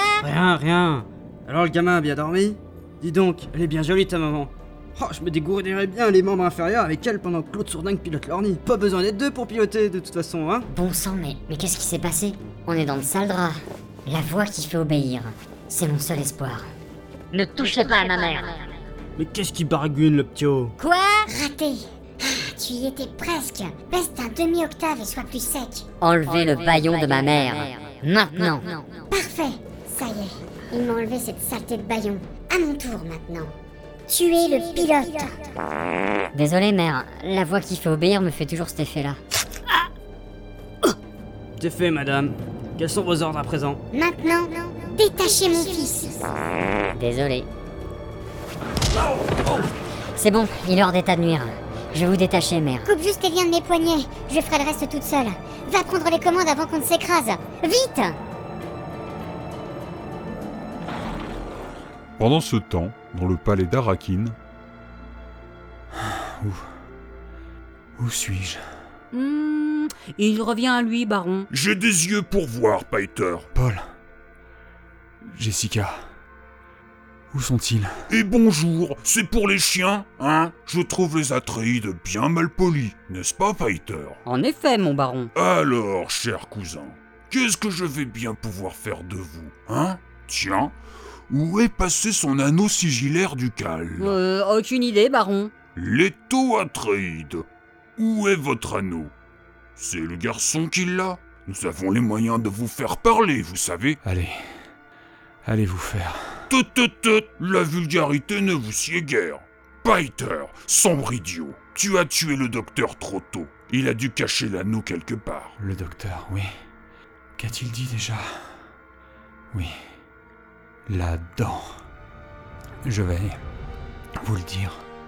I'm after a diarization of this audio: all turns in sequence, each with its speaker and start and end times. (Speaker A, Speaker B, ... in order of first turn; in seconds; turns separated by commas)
Speaker A: 0.2-10.7, Speaker B: 10.7-16.7, Speaker B: 17.3-18.6, Speaker A: 19.2-20.8, Speaker B: 20.8-21.2, Speaker C: 21.3-25.9, Speaker B: 26.0-28.9, Speaker C: 29.1-33.5, Speaker C: 34.1-35.5, Speaker B: 36.3-39.2, Speaker A: 41.6-43.8, Speaker C: 43.9-46.3, Speaker B: 46.9-47.5, Speaker B: 50.2-52.9, Speaker C: 52.9-58.2, Speaker D: 62.2-64.4, Speaker E: 68.0-68.6, Speaker F: 69.1-71.5, Speaker G: 71.5-73.5, Speaker E: 73.6-73.8, Speaker E: 75.2-76.0, Speaker E: 77.3-77.9, Speaker G: 78.1-84.2, Speaker F: 84.3-85.3, Speaker G: 85.3-90.8, Speaker G: 91.3-94.2, Speaker F: 94.0-95.5, Speaker G: 95.8-97.5, Speaker G: 98.0-99.1, Speaker G: 99.8-104.0, Speaker E: 104.0-104.3, Speaker E: 105.5-106.2, Speaker G: 106.5-115.6, Speaker E: 115.6-116.5, Speaker E: 117.4-118.4, Speaker E: 120.9-121.8, Speaker E: 122.8-123.4, Speaker E: 124.2-124.8